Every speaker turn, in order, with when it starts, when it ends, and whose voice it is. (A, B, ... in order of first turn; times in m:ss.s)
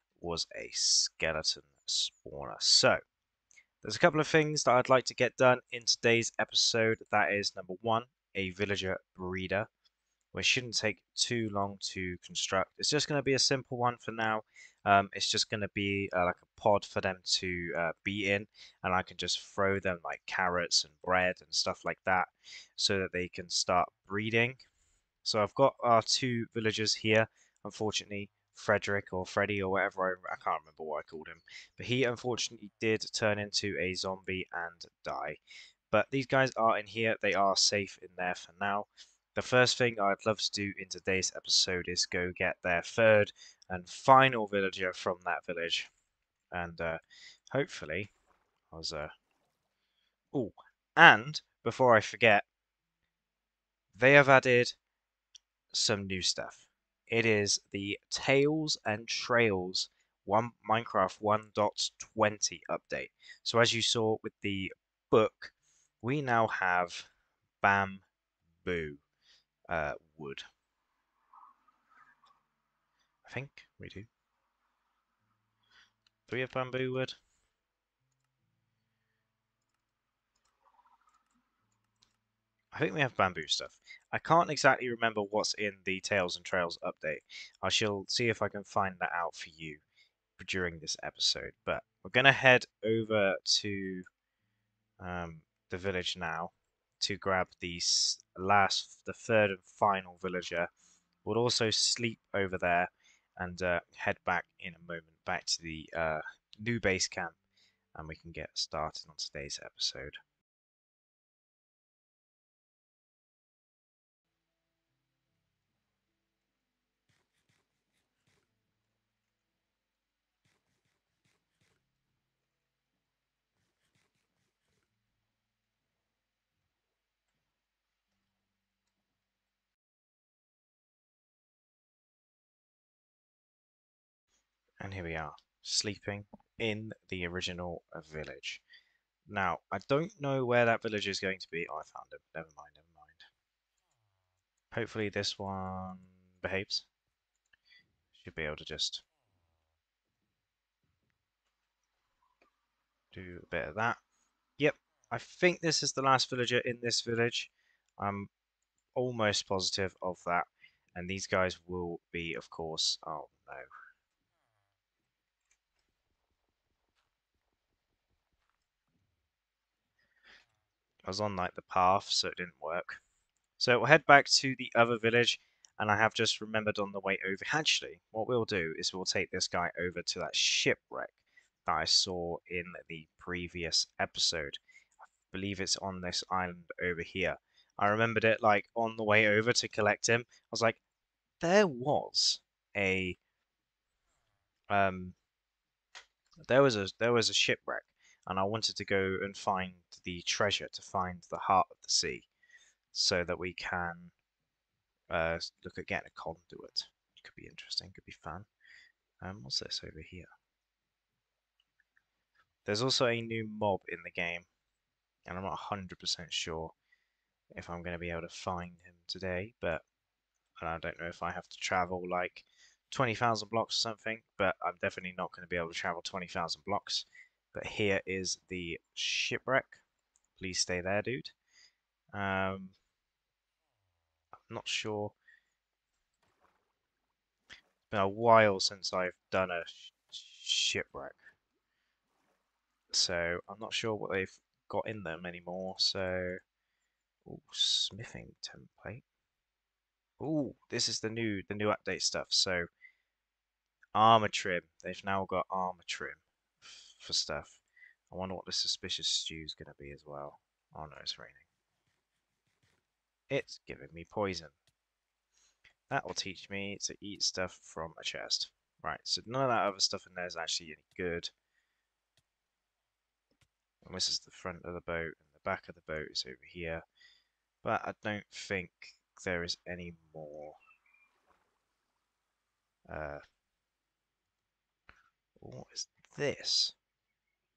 0:00.2-0:03.0 A
0:03.8-0:09.7 A
0:10.3-0:24.6 A
0:25.2-0:35.4 A
0:35.9-0:45.9 A
0:46.5-0:47.0 A
0:47.5-0:48.1 A
0:48.7-0:49.1 A
0:50.3-0:52.5 A
0:54.0-0:54.8 A
0:55.7-1:07.1 A
1:07.6-1:08.0 A
1:08.6-1:09.0 A
1:09.7-1:10.4 A
1:13.2-1:14.1 A
1:16.3-1:17.2 A
1:22.7-1:29.8 A
1:30.4-1:34.1 A
1:35.0-1:40.7 A
1:41.2-1:47.4 A
1:48.0-1:50.2 A
2:14.8-2:18.6 A
2:19.3-2:23.3 A
2:24.7-2:26.9 A
2:28.1-2:29.0 A
2:33.1-2:34.0 A
2:34.6-2:38.3 A
2:39.0-2:43.7 A
2:51.0-2:53.0 A
2:53.6-3:04.6 A
3:05.3-3:10.8 A
3:11.4-3:13.2 A
3:14.7-3:15.2 A
3:16.4-3:22.3 A
3:22.9-3:24.1 A
3:25.1-3:28.5 A
3:29.2-3:30.3 A
3:32.6-3:34.5 A
3:35.3-3:36.7 A
3:37.5-3:39.8 A
3:40.6-3:49.8 A
3:50.4-3:51.4 A
3:52.1-3:52.8 A
3:54.5-3:55.2 A
3:57.9-4:01.3 A
4:02.9-4:06.4 A
4:07.2-4:09.0 A
4:10.2-4:12.7 A
4:14.0-4:21.5 A
4:23.3-4:24.6 A
4:25.9-4:31.3 A
4:33.8-4:36.8 A
4:37.6-4:40.6 A
4:42.9-4:43.2 A
4:45.4-4:46.8 A